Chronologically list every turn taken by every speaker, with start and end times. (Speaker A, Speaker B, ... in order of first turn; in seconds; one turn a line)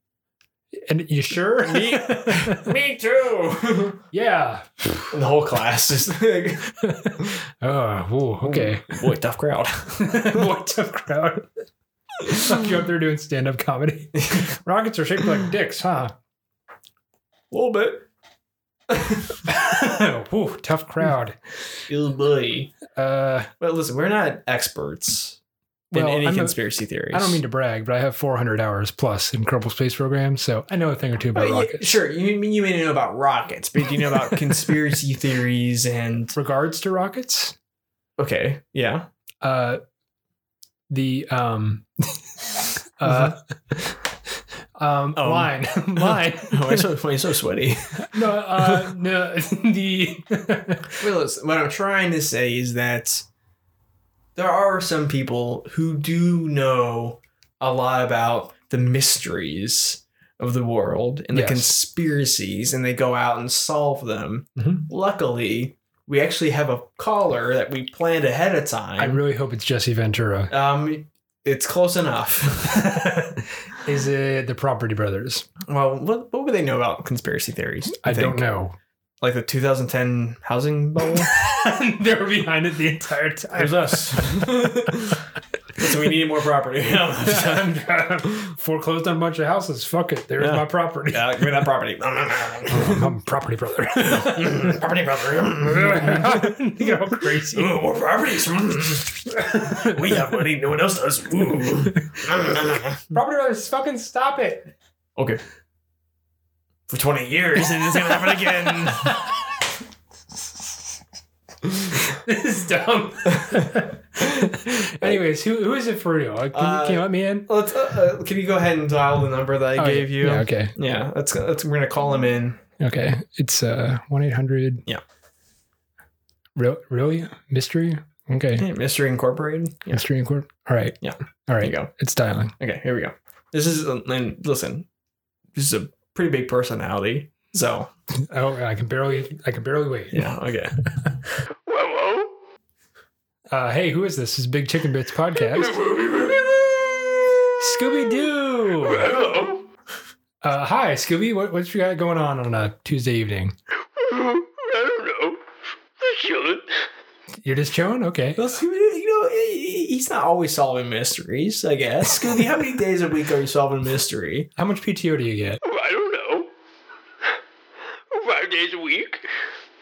Speaker A: 0.7-2.8
Speaker B: 1.6-4.0
Speaker A: 4.1-5.2
Speaker B: 5.1-6.8
Speaker A: 6.8-9.0
Speaker B: 8.4-10.5
Speaker A: 10.0-11.6
Speaker A: 12.3-16.1
Speaker B: 14.2-14.5
Speaker B: 17.5-18.1
Speaker B: 18.9-19.4
Speaker A: 19.5-21.4
Speaker B: 21.9-22.7
Speaker A: 22.9-23.5
Speaker B: 23.6-25.4
Speaker A: 25.9-26.6
Speaker B: 25.9-27.4
Speaker A: 27.1-31.9
Speaker B: 31.4-36.4
Speaker A: 36.4-37.6
Speaker B: 38.2-39.1
Speaker A: 39.4-39.8
Speaker A: 40.9-44.0
Speaker B: 43.0-43.4
Speaker A: 44.8-46.9
Speaker B: 45.2-48.9
Speaker A: 48.0-51.0
Speaker B: 51.0-53.3
Speaker B: 54.4-69.2
Speaker A: 61.3-61.8
Speaker A: 64.6-64.8
Speaker A: 69.0-70.5
Speaker B: 70.5-73.0
Speaker A: 72.7-75.5
Speaker B: 75.7-78.5
Speaker A: 78.0-78.8
Speaker B: 79.2-81.3
Speaker A: 81.1-84.9
Speaker B: 83.5-85.2
Speaker B: 85.8-87.7
Speaker A: 87.2-91.3
Speaker B: 90.4-93.1
Speaker A: 92.7-94.8
Speaker B: 94.0-103.1
Speaker A: 95.6-97.7
Speaker A: 99.4-100.2
Speaker A: 103.1-104.7
Speaker B: 105.2-105.4
Speaker B: 106.9-109.2
Speaker A: 108.8-109.4
Speaker A: 111.9-117.5
Speaker B: 114.2-115.2
Speaker B: 116.5-122.6
Speaker A: 119.8-120.8
Speaker A: 122.8-124.8
Speaker A: 126.6-128.7
Speaker B: 128.6-130.0
Speaker A: 129.9-132.5
Speaker B: 131.0-131.9
Speaker B: 132.6-134.9
Speaker B: 135.6-137.9
Speaker A: 138.3-140.3
Speaker B: 140.1-140.8
Speaker C: 141.7-142.3
Speaker A: 143.5-145.8
Speaker C: 145.4-148.3
Speaker A: 147.6-149.2
Speaker C: 148.8-149.7
Speaker A: 150.4-153.6
Speaker C: 153.9-155.4
Speaker C: 156.0-156.7
Speaker A: 157.4-158.4
Speaker B: 158.4-164.5
Speaker A: 164.6-165.6
Speaker C: 165.6-166.5
Speaker C: 168.1-169.3